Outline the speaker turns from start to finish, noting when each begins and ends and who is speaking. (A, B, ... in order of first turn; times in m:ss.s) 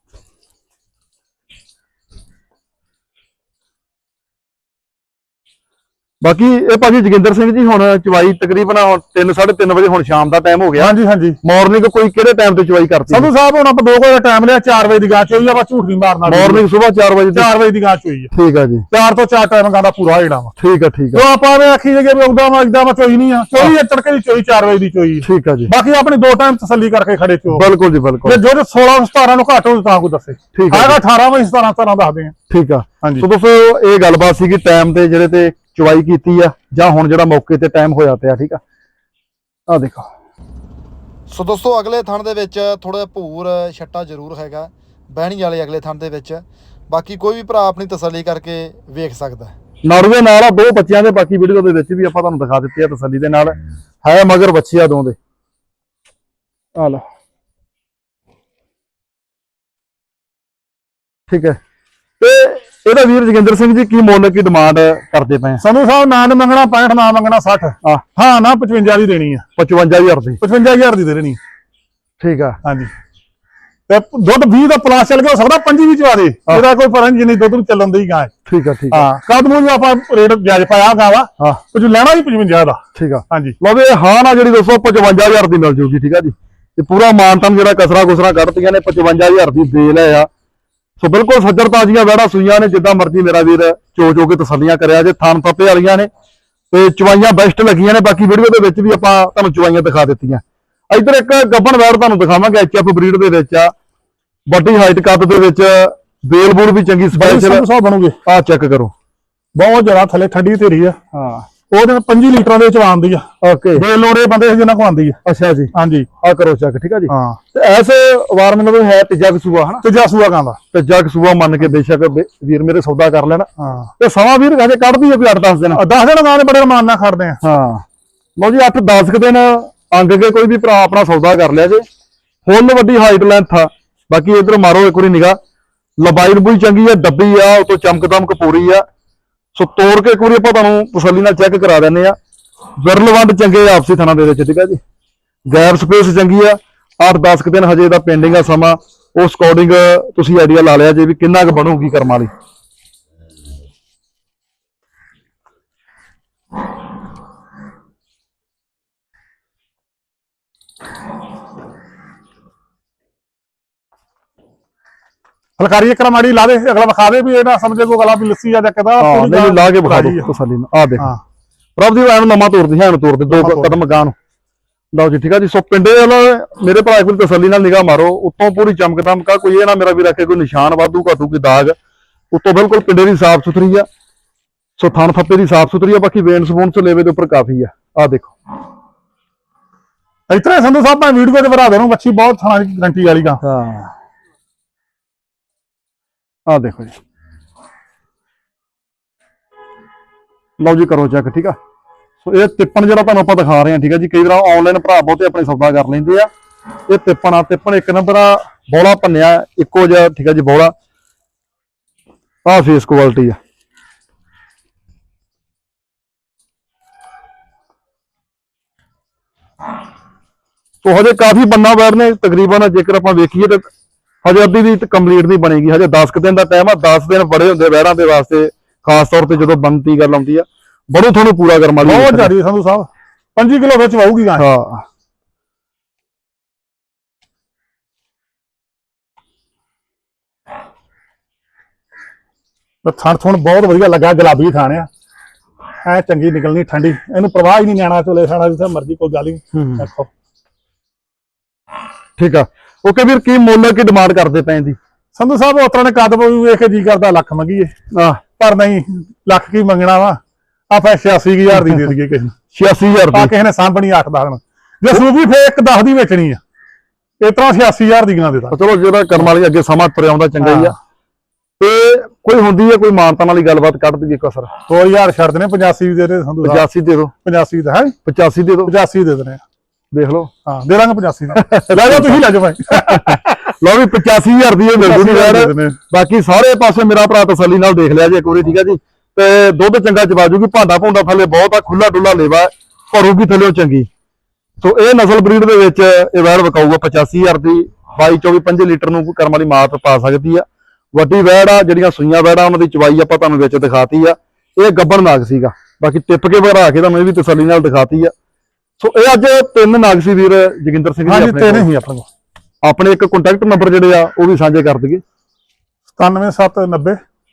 0:06.2-0:10.9 A
0:10.8-0:11.4 B
0:11.4-0:13.3 A
0:13.1-0:16.6 B
0:16.2-0:17.5 A
0:17.3-0:18.3 B
0:18.3-0:18.8 A
0:18.9-0:20.5 B
0:20.6-0:21.2 A
0:21.1-0:27.7 B
0:25.2-0:25.7 A
0:27.5-0:28.4 A
0:28.2-0:32.3 B
0:30.5-0:31.0 A
0:32.5-0:38.6 A
0:33.0-0:33.3 B
0:39.7-0:40.1 A
0:41.3-0:49.6 C
0:49.8-0:55.2 A
0:56.8-0:57.0 A
1:01.3-1:01.6 A
1:02.2-1:05.6 A
1:05.6-1:09.4 B
1:09.6-1:10.4 A
1:10.4-1:11.4 B
1:12.2-1:12.6 A
1:12.6-1:12.9 B
1:13.9-1:18.3 B
1:18.4-1:19.1 A
1:18.9-1:23.6 B
1:22.9-1:30.3 A
1:31.0-1:36.1 A
1:36.7-1:43.7 A
1:44.5-1:47.6 A
1:47.1-1:48.2 B
1:48.2-1:48.9 A
1:49.5-1:51.0 B
1:51.1-1:51.4 A
1:51.7-1:55.2 B
1:53.4-1:53.8 A
1:55.2-1:59.8 A
1:55.7-1:56.1 B
1:57.1-1:57.4 B
1:59.8-2:00.6 B
2:00.7-2:03.5 A
2:03.6-2:03.9 B
2:04.0-2:05.8 A
2:05.7-2:07.4 B
2:07.4-2:07.8 A
2:08.4-2:11.8 A
2:12.4-2:15.4 A
2:16.0-2:18.8 A
2:19.5-2:22.2 A
2:22.8-2:24.8 A
2:25.5-2:32.3 A
2:45.6-2:50.3 B
2:49.0-2:51.1 A
2:51.8-2:54.2 A
2:53.3-2:53.8 B
2:54.9-3:01.8 A
3:02.3-3:03.9 A
3:04.8-3:08.3 A
3:10.3-3:13.4 B
3:13.4-3:13.9 A
3:16.5-3:17.0 A
3:20.6-3:21.6 A
3:22.2-3:26.3 A
3:26.9-3:30.7 A
3:32.4-3:33.4 A
3:40.8-3:43.6 A
3:44.2-3:52.3 A
3:51.8-3:54.4 B
3:54.4-3:54.8 A
4:02.8-4:04.9 B
4:05.8-4:10.1 B
4:09.5-4:09.9 A
4:12.2-4:14.8 A
4:15.1-4:17.7 B
4:17.9-4:18.2 A
4:18.4-4:20.2 B
4:20.7-4:22.3 B
4:22.5-4:23.3 A
4:23.1-4:26.4 B
4:27.2-4:28.6 B
4:28.5-4:30.8 A
4:30.4-4:30.7 B
4:31.6-4:34.5 A
4:34.7-4:36.6 B
4:36.4-4:37.1 A
4:37.2-4:37.9 B
4:38.0-4:38.7 A
4:38.6-4:39.4 B
4:39.9-4:40.3 A
4:40.4-4:43.2 B
4:41.4-4:53.9 A
4:44.8-4:45.8 B
4:54.6-5:08.1 A
5:08.8-5:11.7 A
5:11.0-5:12.1 B
5:12.6-5:15.0 A
5:16.0-5:17.0 B